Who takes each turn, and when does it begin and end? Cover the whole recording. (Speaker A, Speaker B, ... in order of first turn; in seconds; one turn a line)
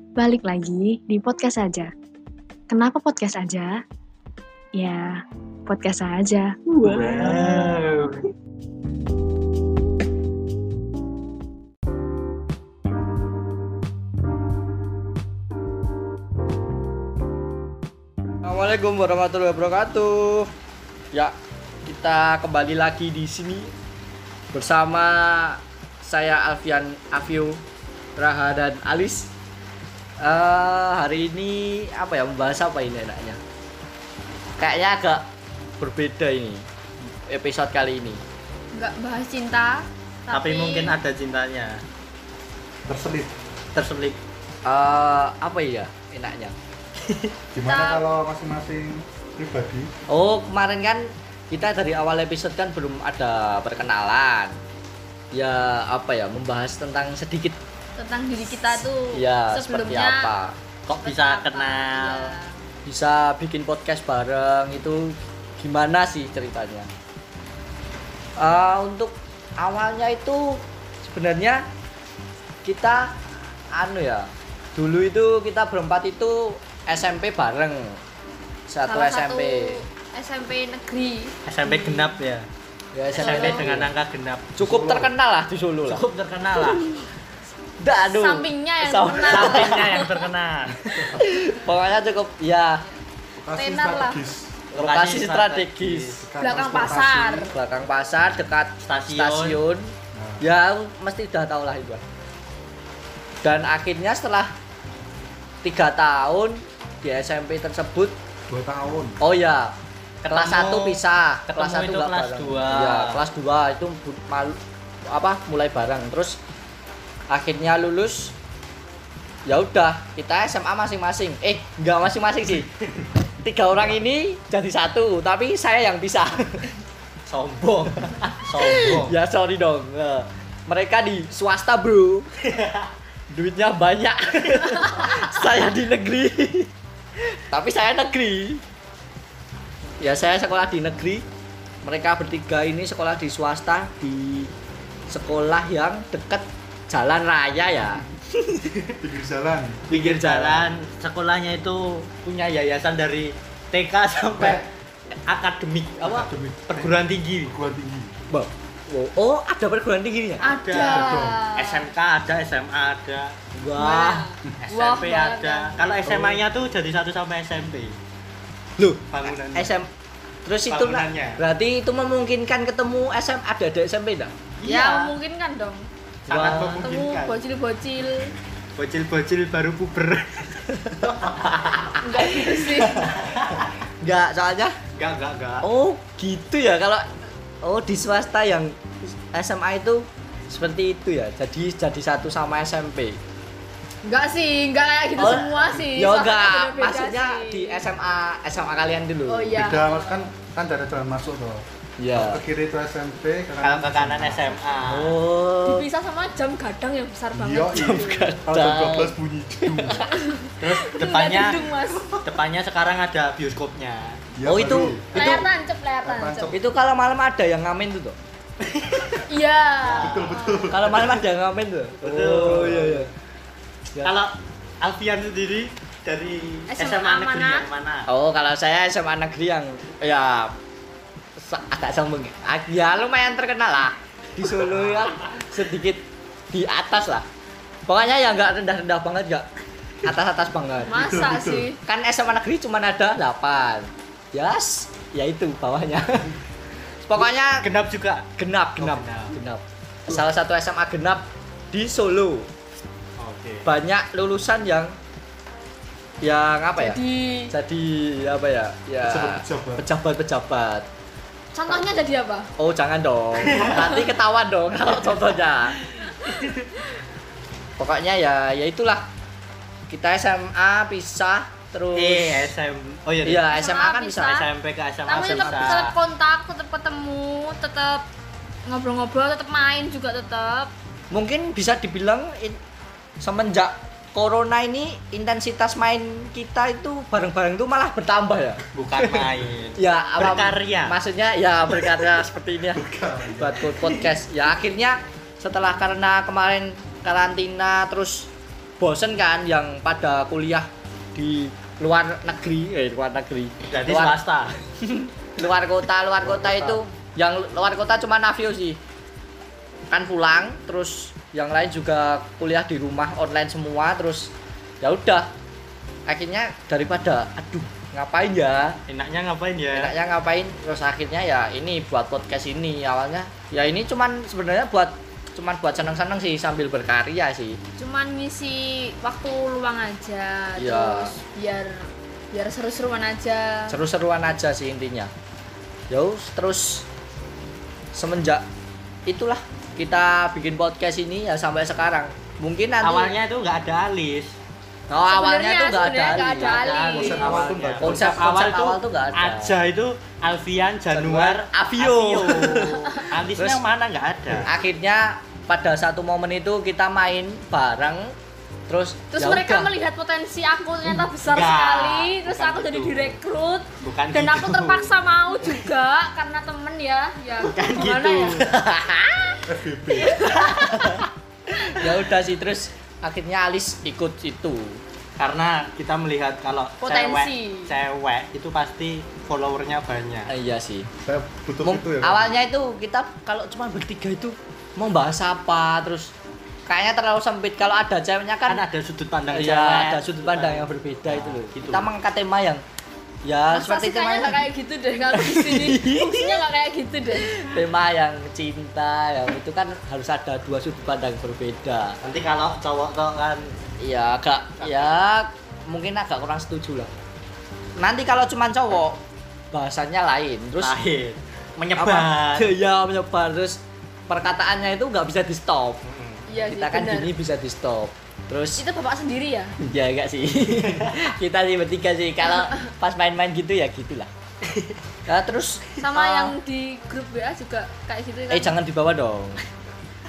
Speaker A: 0.2-1.9
Speaker A: 2.7-3.8
Speaker A: 4.8-7.1
Speaker B: 6.8-8.2
Speaker C: 18.4-20.5
Speaker C: 21.9-23.7
Speaker C: 24.5-27.6
Speaker C: 28.2-29.3
Speaker C: 30.2-33.4
Speaker C: 34.6-35.2
Speaker C: 35.8-36.6
Speaker C: 37.3-38.2
Speaker D: 38.7-41.0
Speaker B: 40.3-41.8
Speaker E: 42.9-43.3
Speaker B: 43.7-44.2
Speaker C: 44.6-46.5
Speaker E: 47.5-49.9
Speaker D: 47.6-48.0
Speaker C: 50.1-54.6
Speaker C: 55.3-57.6
Speaker D: 58.0-60.3
Speaker C: 59.1-60.5
Speaker B: 60.9-62.3
Speaker D: 60.9-62.6
Speaker C: 62.9-66.9
Speaker C: 68.4-71.7
Speaker C: 72.6-73.1
Speaker C: 73.8-78.0
Speaker C: 78.7-79.8
Speaker D: 78.9-82.2
Speaker B: 81.5-82.5
Speaker C: 82.9-83.9
Speaker D: 83.1-83.7
Speaker B: 83.2-84.5
Speaker E: 84.6-85.1
Speaker C: 84.6-86.0
Speaker B: 85.8-86.9
Speaker C: 87.8-89.9
Speaker D: 87.9-90.2
Speaker B: 89.2-90.7
Speaker D: 90.9-91.3
Speaker C: 91.2-92.8
Speaker E: 93.4-94.6
Speaker D: 93.5-94.2
Speaker B: 94.7-96.2
Speaker C: 94.7-96.2
Speaker E: 96.2-97.5
Speaker D: 96.4-97.5
Speaker C: 97.5-102.0
Speaker B: 98.8-99.6
Speaker E: 100.1-100.5
Speaker C: 103.4-104.5
Speaker C: 105.6-108.1
Speaker E: 108.5-109.2
Speaker C: 109.2-109.7
Speaker B: 110.2-113.2
Speaker C: 110.3-114.6
Speaker C: 115.1-116.4
Speaker C: 117.3-118.3
Speaker C: 119.5-122.7
Speaker C: 123.4-126.7
Speaker B: 127.3-129.2
Speaker C: 128.3-132.3
Speaker B: 132.5-132.8
Speaker C: 133.3-136.7
Speaker C: 137.5-138.6
Speaker C: 140.0-141.2
Speaker C: 141.8-144.5
Speaker C: 145.1-148.0
Speaker E: 149.0-149.9
Speaker C: 149.9-150.7
Speaker B: 149.9-154.7
Speaker E: 154.3-154.6
Speaker B: 155.3-157.5
Speaker E: 156.0-158.1
Speaker C: 158.3-160.5
Speaker D: 160.4-161.9
Speaker B: 160.4-163.3
Speaker E: 160.9-161.4
Speaker C: 163.6-164.3
Speaker D: 163.8-165.7
Speaker B: 164.6-168.0
Speaker C: 168.8-169.9
Speaker B: 169.1-169.8
Speaker C: 170.4-174.3
Speaker B: 170.7-171.4
Speaker B: 174.6-175.1
Speaker D: 174.7-175.9
Speaker B: 176.3-177.4
Speaker C: 176.3-176.9
Speaker D: 176.5-178.3
Speaker B: 178.8-181.8
Speaker C: 181.4-183.1
Speaker D: 182.0-183.1
Speaker B: 182.8-183.6
Speaker C: 184.0-184.8
Speaker B: 184.9-185.7
Speaker C: 185.6-187.0
Speaker C: 187.6-193.2
Speaker D: 194.0-197.9
Speaker C: 195.2-199.6
Speaker D: 199.3-200.3
Speaker E: 199.6-204.5
Speaker C: 202.0-202.4
Speaker B: 203.6-205.2
Speaker C: 204.8-205.9
Speaker D: 205.7-208.3
Speaker E: 207.3-210.1
Speaker C: 207.7-210.0
Speaker D: 210.0-212.2
Speaker B: 210.6-214.2
Speaker E: 214.3-215.4
Speaker C: 214.4-215.5
Speaker D: 215.1-216.6
Speaker E: 216.0-216.6
Speaker C: 216.5-218.2
Speaker B: 218.8-219.1
Speaker D: 219.3-220.7
Speaker B: 219.8-220.4
Speaker E: 220.0-221.2
Speaker C: 220.7-223.1
Speaker B: 222.0-223.1
Speaker B: 224.0-228.1
Speaker D: 226.7-227.7
Speaker C: 228.1-230.6
Speaker C: 231.4-237.3
Speaker C: 237.9-239.5
Speaker C: 240.0-241.2
Speaker D: 240.9-241.8
Speaker E: 241.0-241.7
Speaker C: 241.8-246.3
Speaker C: 247.1-247.7
Speaker B: 247.6-249.3
Speaker C: 248.4-252.5
Speaker B: 253.2-253.7
Speaker C: 253.7-254.9
Speaker C: 256.2-260.9
Speaker D: 256.8-257.5
Speaker E: 259.0-259.8
Speaker D: 261.5-262.5
Speaker C: 261.7-262.0
Speaker C: 262.6-265.8
Speaker B: 263.5-263.9
Speaker B: 266.2-266.6
Speaker C: 267.8-269.1
Speaker C: 269.9-272.5
Speaker B: 271.9-273.5
Speaker C: 273.2-274.4
Speaker D: 273.5-274.5
Speaker B: 274.4-275.8
Speaker D: 275.1-278.1
Speaker C: 275.1-275.9
Speaker D: 278.7-280.7
Speaker C: 281.1-282.6
Speaker C: 283.2-288.6
Speaker B: 288.8-290.9
Speaker C: 289.8-292.8
Speaker E: 292.7-293.6
Speaker C: 293.4-298.3
Speaker C: 298.8-304.2
Speaker B: 303.7-304.6
Speaker C: 304.8-308.8
Speaker E: 306.2-306.8
Speaker C: 309.9-315.3
Speaker C: 316.1-318.8
Speaker B: 318.9-319.9
Speaker C: 319.7-327.6
Speaker D: 327.8-333.8
Speaker C: 330.6-331.2
Speaker C: 333.7-335.1
Speaker C: 335.9-336.9
Speaker C: 337.9-338.4
Speaker C: 339.1-343.1
Speaker B: 342.8-344.3
Speaker C: 344.9-349.6
Speaker D: 345.1-347.4
Speaker B: 346.4-354.5
Speaker E: 347.0-348.2
Speaker C: 350.9-352.8
Speaker C: 353.4-353.6
Speaker C: 354.4-358.1
Speaker C: 358.7-359.7
Speaker D: 359.1-368.4
Speaker B: 361.2-363.2
Speaker B: 363.8-364.9
Speaker B: 367.4-368.7
Speaker E: 369.5-370.2
Speaker D: 369.9-371.1
Speaker B: 370.5-371.0
Speaker C: 371.6-374.8
Speaker B: 375.2-380.3
Speaker D: 376.8-377.7
Speaker C: 380.3-380.9
Speaker E: 381.0-382.3
Speaker C: 381.6-386.1
Speaker C: 386.7-388.6
Speaker B: 388.5-391.9
Speaker C: 389.3-392.6
Speaker C: 393.2-394.4
Speaker D: 393.5-397.3
Speaker C: 395.1-396.4
Speaker C: 397.1-402.0
Speaker B: 402.0-403.5
Speaker C: 403.8-406.9
Speaker B: 404.6-404.9
Speaker C: 407.8-409.0
Speaker C: 409.5-410.8
Speaker B: 410.6-412.5
Speaker C: 411.8-415.8
Speaker B: 415.9-416.3
Speaker D: 416.3-417.1
Speaker C: 416.4-418.6
Speaker D: 418.6-419.5
Speaker C: 419.6-424.1
Speaker B: 420.6-420.9
Speaker C: 425.1-426.4
Speaker D: 425.8-428.6
Speaker C: 428.3-429.4